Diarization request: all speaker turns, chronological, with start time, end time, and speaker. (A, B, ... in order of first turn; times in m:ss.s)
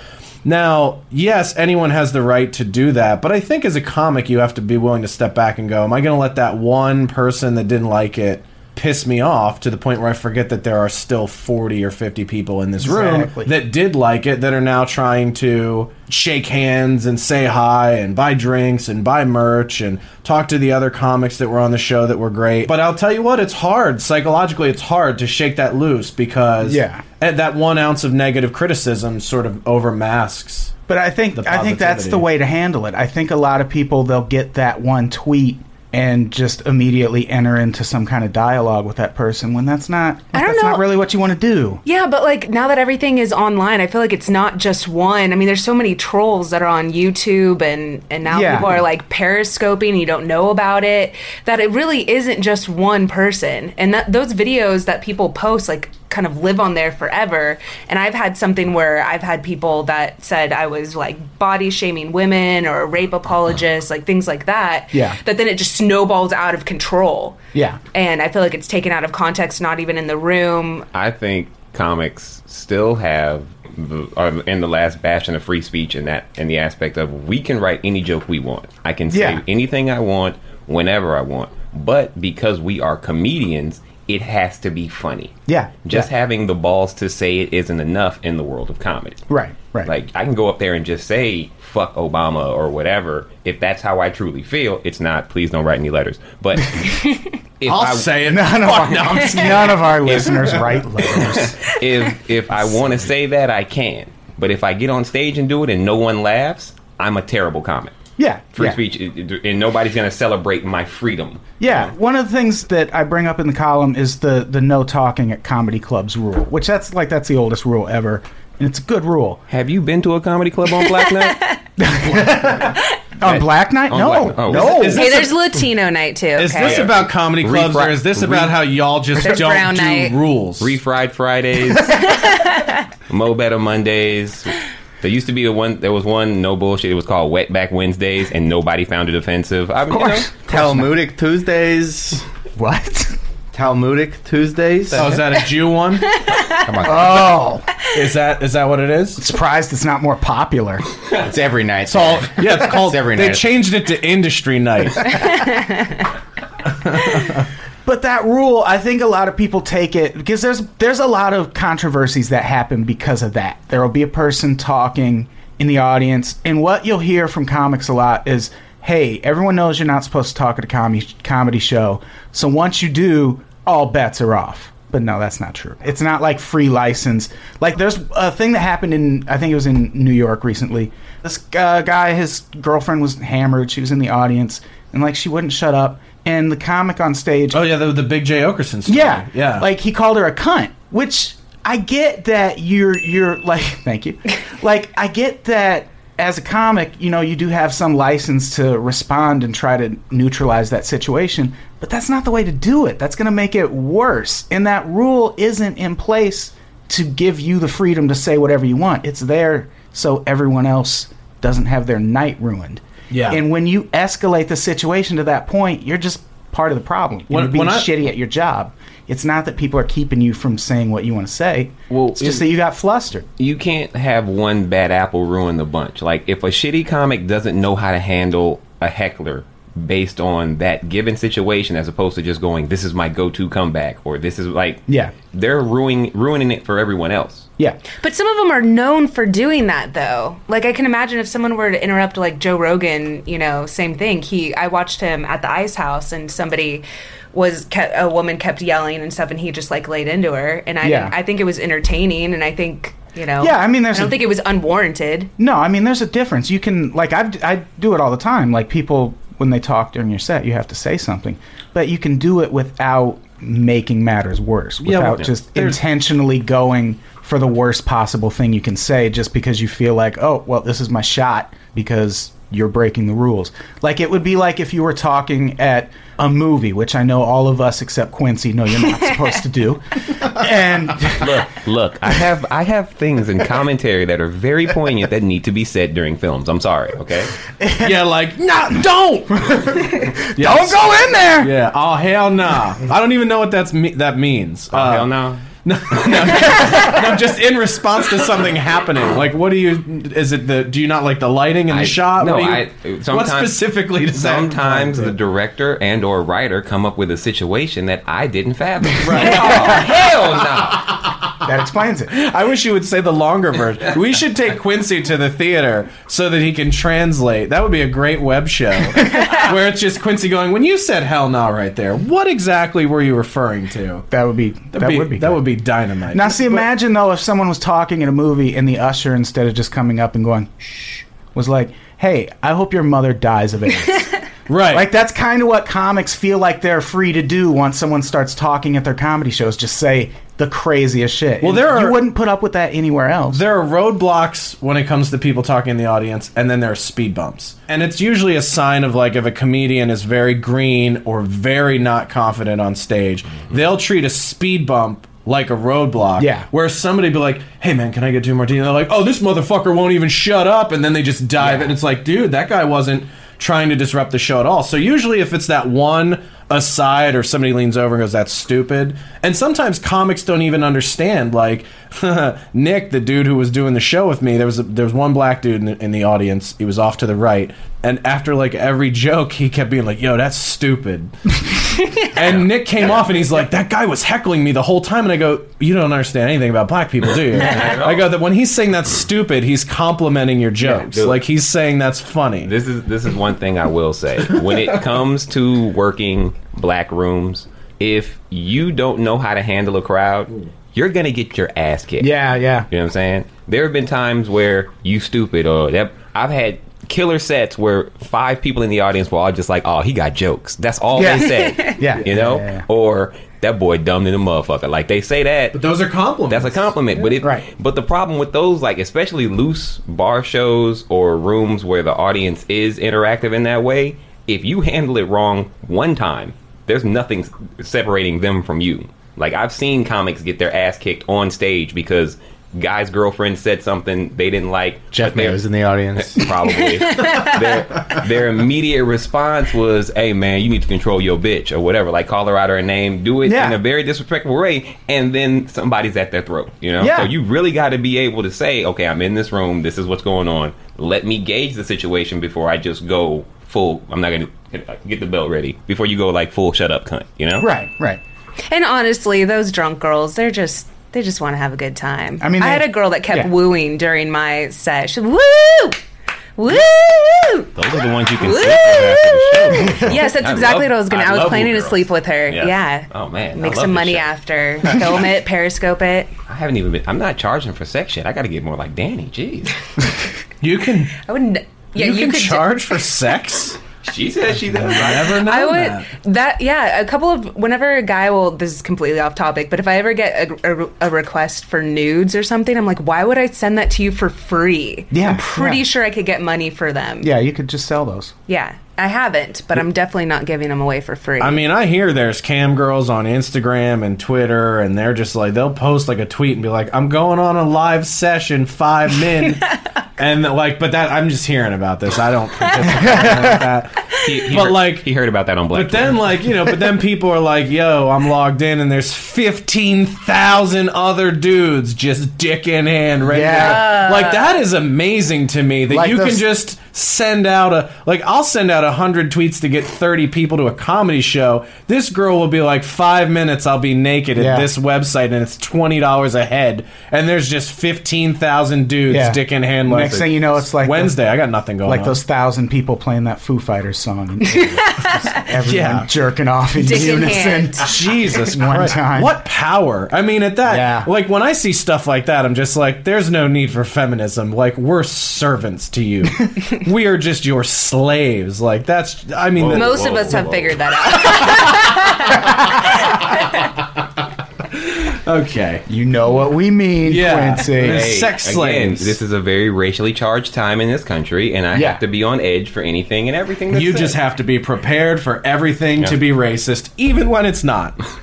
0:00.4-0:30.7 A
0:12.8-0:13.5 B
0:26.6-0:27.0 B
0:30.9-0:41.8 B
0:31.3-0:32.3 A
0:40.3-0:40.9 C
0:41.8-1:07.4 C
0:48.3-0:48.8 B
1:04.9-1:05.2 B
1:07.5-1:07.8 B
1:07.9-1:10.9 C
1:10.9-1:25.3 D
1:19.1-1:19.4 B
1:25.5-1:26.1 B
1:25.8-1:29.3 D
1:29.3-1:29.9 B
1:29.8-1:47.9 D
1:37.6-1:39.4 A
1:38.2-1:41.7 B
1:48.2-1:48.8 B
1:48.5-1:51.9 D
1:51.6-1:59.4 B
1:59.5-2:01.5 D
2:00.8-2:01.6 C
2:01.8-2:05.3 B
2:03.2-2:05.0 D
2:04.5-2:05.4 A
2:04.9-2:06.9 C
2:06.4-2:10.8 A
2:06.6-2:08.6 D
2:09.2-2:10.2 C
2:10.6-2:12.3 D
2:11.8-2:12.9 C
2:13.1-2:20.3 D
2:19.9-2:20.9 B
2:20.5-2:22.2 E
2:22.6-2:23.2 B
2:23.5-2:25.1 E
2:24.9-2:26.1 A
2:26.1-2:26.7 C
2:26.6-2:27.4 E
2:26.8-2:27.6 B
2:27.9-2:29.2 A
2:29.2-2:30.8 B
2:31.2-2:33.4 E
2:31.9-2:35.3 A
2:35.1-2:36.1 C
2:36.8-2:37.4 A
2:37.8-3:07.6 B
3:07.5-3:09.7 A
3:08.9-3:43.3 B
3:33.1-3:33.4 A
3:37.3-3:37.9 A
3:41.9-3:42.4 D
3:43.4-3:57.5 D
3:54.9-3:55.1 B
3:58.0-4:15.3 C
4:10.8-4:11.1 B
4:13.4-4:14.2 B
4:15.4-4:41.4 B
4:24.8-4:25.8 A
4:41.2-4:47.3 D
4:47.6-4:48.0 B
4:47.8-4:55.1 A
4:49.4-4:51.5 B
4:54.7-4:56.7 D
4:55.6-5:05.1 A
5:01.7-5:11.0 D
5:09.0-5:09.9 A
5:09.3-5:09.8 B
5:11.3-5:12.2 B
5:12.1-5:24.1 A
5:24.1-5:25.4 B
5:24.7-5:26.7 A
5:26.1-5:43.4 B
5:34.5-5:34.9 A
5:41.4-5:42.1 A
5:43.3-6:32.5 A
5:56.2-5:56.5 B
6:01.4-6:01.7 B
6:22.2-6:22.5 D
6:27.4-6:28.1 D
6:30.6-6:31.2 D
6:32.4-6:42.2 D
6:42.0-6:42.7 B
6:42.7-6:55.6 D
6:51.0-6:52.6 B
6:51.4-6:51.7 C
6:55.5-6:56.7 A
6:56.3-7:15.4 D
6:57.2-6:57.5 B
7:14.9-7:16.3 E
7:16.0-7:37.5 D
7:16.5-7:17.5 C
7:23.2-7:23.6 B
7:26.8-7:27.1 B
7:37.4-7:38.0 B
7:38.5-7:45.8 C
7:42.2-7:43.3 B
7:46.4-7:47.6 C
7:47.5-7:54.1 D
7:48.2-7:56.1 C
7:49.5-7:50.0 B
7:56.3-7:59.5 D
8:00.4-8:01.0 A
8:01.0-8:02.5 C
8:01.8-8:03.6 A
8:03.8-8:05.2 D
8:04.5-8:05.9 A
8:05.2-8:17.1 C
8:14.9-8:15.6 B
8:17.0-8:18.1 B
8:18.3-8:21.4 C
8:21.2-8:34.9 A
8:32.8-8:33.4 B
8:33.9-8:36.2 D
8:35.5-9:02.0 A
8:43.1-8:43.8 B
8:43.4-8:44.3 C
8:45.7-8:46.2 B
8:54.2-8:54.5 B
8:58.9-9:01.0 B
9:01.6-9:09.1 B
9:04.8-9:05.1 C
9:05.3-9:05.9 A
9:06.6-9:07.7 C
9:07.6-9:20.2 A
9:10.4-9:10.9 B
9:19.4-9:20.6 D
9:19.5-9:22.5 C
9:21.1-9:21.7 A
9:24.5-9:25.7 A
9:25.7-9:27.9 B
9:26.8-9:29.0 A
9:27.5-9:34.0 D
9:31.5-9:31.8 B
9:33.5-9:37.8 A